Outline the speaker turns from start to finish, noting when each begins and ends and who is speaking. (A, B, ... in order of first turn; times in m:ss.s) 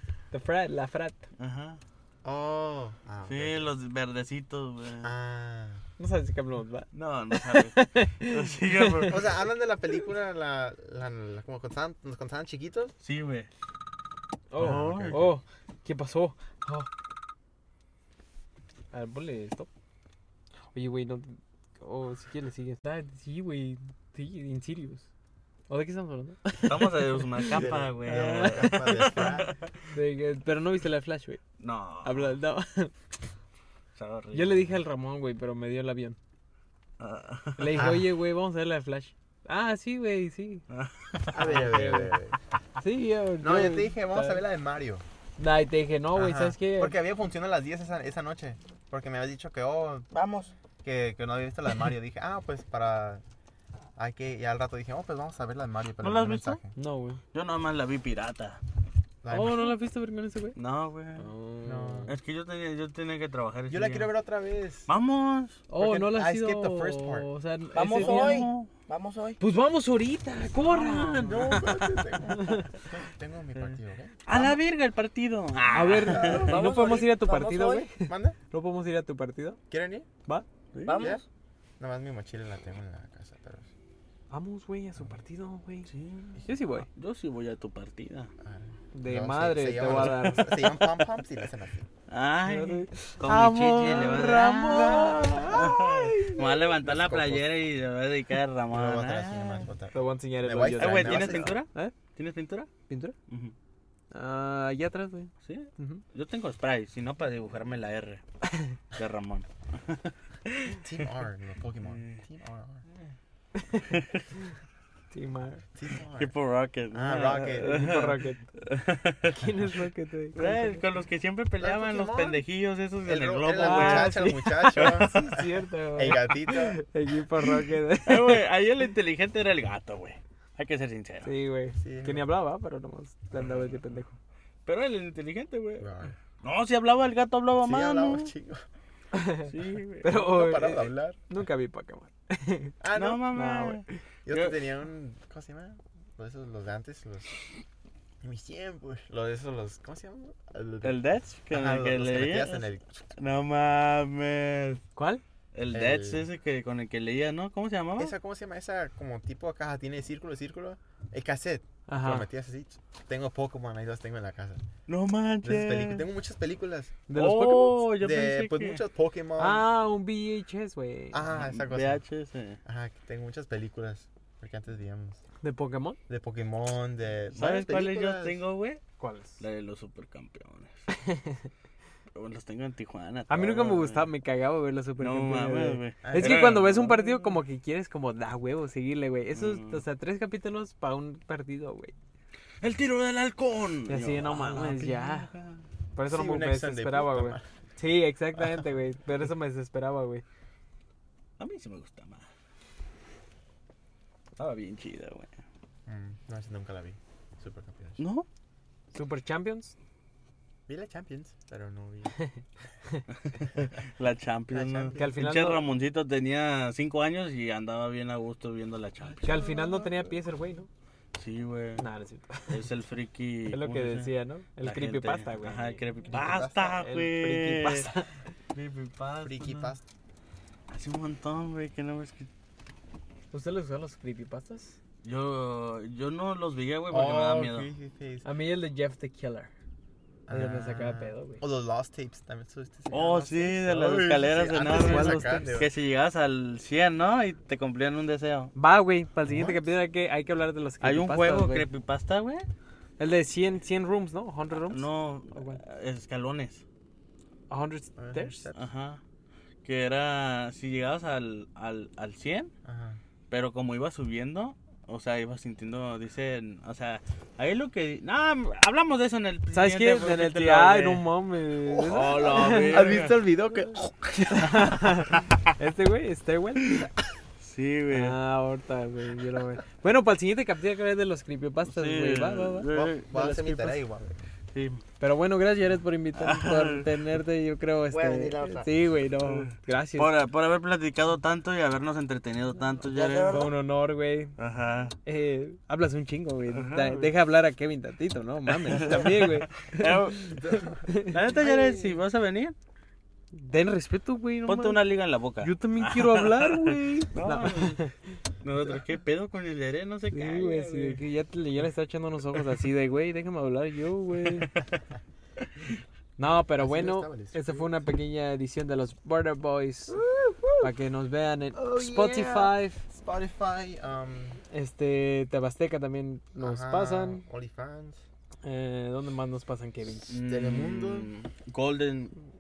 0:00.3-0:01.3 A
0:01.4-0:01.8 B
0:02.2-0:03.6 C
0:03.3-0:05.1 B
0:05.0-0:05.8 C
0:06.0-0:09.1 A
0:06.9-0:09.4 B
0:09.1-0:12.9 C
0:13.0-0:13.5 B
0:14.5-0:16.9 A
0:14.6-0:15.3 C
0:14.6-0:15.3 B
0:18.9-0:19.7 A
0:20.7-0:25.1 A
0:25.7-0:29.2 A
0:26.7-0:29.7 B
0:27.5-0:29.5 C
0:29.9-0:31.4 A
0:31.6-0:32.4 B
0:32.0-0:32.9 A
0:34.0-0:34.8 B
0:34.3-0:36.2 A
0:37.0-0:37.8 B
0:37.6-0:40.6 A
0:37.7-0:38.1 C
0:40.7-0:41.4 B
0:41.3-0:42.4 C
0:41.4-0:42.2 A
0:42.8-0:44.4 A
0:43.4-0:45.0 C
0:45.4-0:47.0 A
0:46.2-0:50.1 C
0:50.1-0:50.5 D
0:50.8-0:53.2 C
0:54.0-0:56.7 C
0:56.0-0:56.6 B
0:56.8-0:57.2 A
0:57.3-0:58.6 B
0:59.2-0:59.8 C
0:59.3-1:00.6 A
1:00.6-1:01.2 B
1:01.2-1:02.1 A
1:01.6-1:02.2 C
1:02.1-1:04.1 B
1:03.7-1:04.9 C
1:04.9-1:05.6 B
1:05.7-1:08.5 A
1:05.8-1:07.3 C
1:07.7-1:09.4 D
1:07.9-1:08.7 B
1:09.4-1:11.7 A
1:10.6-1:11.8 B
1:11.2-1:14.2 C
1:12.4-1:12.6 A
1:14.3-1:16.6 B
1:15.7-1:19.6 A
1:16.0-1:16.7 C
1:16.4-1:17.9 D
1:18.0-1:18.4 C
1:19.7-1:20.1 C
1:20.7-1:21.1 B
1:20.9-1:21.2 D
1:21.0-1:21.2 C
1:21.8-1:23.7 C
1:24.3-1:25.9 A
1:25.9-1:28.3 B
1:26.4-1:26.9 A
1:28.4-1:31.9 C
1:28.9-1:30.9 A
1:29.8-1:30.7 B
1:32.1-1:39.7 B
1:32.5-1:36.9 A
1:34.7-1:35.8 C
1:36.8-1:37.4 C
1:38.7-1:41.6 C
1:39.9-1:41.9 A
1:40.8-1:42.7 B
1:42.9-1:43.2 A
1:43.3-1:43.5 B
1:44.1-1:46.0 A
1:45.4-1:48.2 B
1:48.9-1:50.1 B
1:50.8-1:52.8 C
1:51.9-1:52.2 B
1:53.6-1:53.9 A
1:53.9-1:54.2 B
1:55.1-1:55.6 A
1:55.8-1:56.3 C
1:56.2-1:59.4 B
1:56.9-1:57.9 C
1:57.4-1:58.4 A
1:59.3-2:00.8 A
2:00.4-2:05.4 B
2:01.6-2:02.4 C
2:03.0-2:06.8 C
2:03.6-2:08.4 A
2:08.1-2:11.3 B
2:11.2-2:14.2 A
2:11.8-2:12.3 C
2:13.4-2:13.8 B
2:14.7-2:15.9 B
2:15.8-2:16.2 C
2:16.4-2:18.3 B
2:17.6-2:18.6 C
2:19.1-2:22.8 A
2:19.5-2:20.2 B
2:20.1-2:21.2 C
2:22.8-2:23.3 C
2:22.9-2:24.6 B
2:23.3-2:23.9 A
2:24.3-2:27.3 C
2:28.2-2:31.0 C
2:30.8-2:34.8 B
2:31.5-2:33.1 C
2:35.0-2:35.2 A
2:35.5-2:38.2 B
2:35.7-2:36.3 C
2:38.0-2:44.6 C
2:41.9-2:42.3 A
2:44.9-2:46.1 B
2:45.4-2:47.0 C
2:47.1-2:47.9 A
2:47.1-2:48.8 B
2:48.0-2:49.7 C
2:49.4-2:51.3 A
2:51.1-2:52.0 C
2:51.3-2:52.6 B
2:52.6-2:55.2 C
2:55.4-2:56.0 A
2:56.1-2:58.4 C
2:57.3-2:58.8 B
2:59.0-2:59.4 A
2:59.4-3:00.9 B
3:00.9-3:01.5 A
3:02.2-3:04.1 B
3:03.3-3:11.9 A
3:05.0-3:07.0 B
3:06.0-3:06.7 C
3:09.3-3:09.8 B
3:12.6-3:15.6 B
3:13.9-3:15.3 A
3:16.0-3:20.2 A
3:16.1-3:17.5 C
3:21.4-3:22.3 B
3:24.4-3:25.3 B
3:25.9-3:28.0 C
3:28.0-3:28.3 B
3:28.9-3:29.8 A
3:30.7-3:32.1 C
3:33.2-3:39.4 B
3:34.5-3:35.1 C
3:35.0-3:35.6 A
3:39.1-3:40.2 C
3:39.2-3:40.7 A
3:41.2-3:41.8 B
3:41.8-3:42.7 A
3:42.5-3:44.1 B
3:43.5-3:45.8 A
3:44.6-3:47.9 B
3:46.1-3:46.8 C
3:46.7-3:48.1 A
3:48.5-3:49.8 B
3:49.2-3:49.8 C
3:50.7-3:52.3 B
3:53.3-3:54.8 A
3:55.0-3:57.7 B
3:56.9-3:58.3 C
3:58.2-3:59.5 A
4:00.3-4:05.7 C
4:00.3-4:01.4 A
4:02.9-4:08.5 B
4:04.7-4:05.6 A
4:08.6-4:11.7 A
4:09.2-4:09.7 C
4:10.8-4:12.5 B
4:13.0-4:15.6 A
4:14.6-4:16.6 B
4:17.5-4:18.4 A
4:18.0-4:18.6 C
4:18.6-4:19.0 B
4:19.6-4:22.5 B
4:22.6-4:23.0 C
4:23.3-4:31.0 B
4:29.5-4:33.1 A
4:31.6-4:33.9 C
4:31.8-4:33.2 B
4:34.2-4:36.9 A
4:37.4-4:38.2 B
4:37.9-4:43.8 A
4:41.7-4:43.1 B
4:42.7-4:44.2 C
4:44.5-4:44.8 B
4:45.0-4:50.1 A
4:46.2-4:46.8 B
4:47.9-4:48.7 D
4:49.2-4:53.6 B
4:52.9-4:53.6 D
4:53.3-4:54.4 A
4:54.4-4:55.0 B
4:55.0-5:01.2 A
4:56.5-4:57.1 B
4:58.5-5:00.4 B
4:58.8-4:59.0 C
5:00.4-5:00.9 C
5:01.0-5:02.6 B
5:03.4-5:04.8 A
5:04.4-5:07.8 B
5:05.4-5:08.0 A
5:08.4-5:11.0 B
5:10.1-5:14.5 A
5:14.3-5:14.5 B
5:16.2-5:20.0 A
5:16.6-5:17.8 C
5:19.9-5:20.7 C
5:20.6-5:22.8 A
5:21.6-5:24.4 C
5:24.5-5:27.2 A
5:26.4-5:28.0 C
5:28.4-5:30.2 A
5:30.1-5:32.2 B
5:30.2-5:31.1 C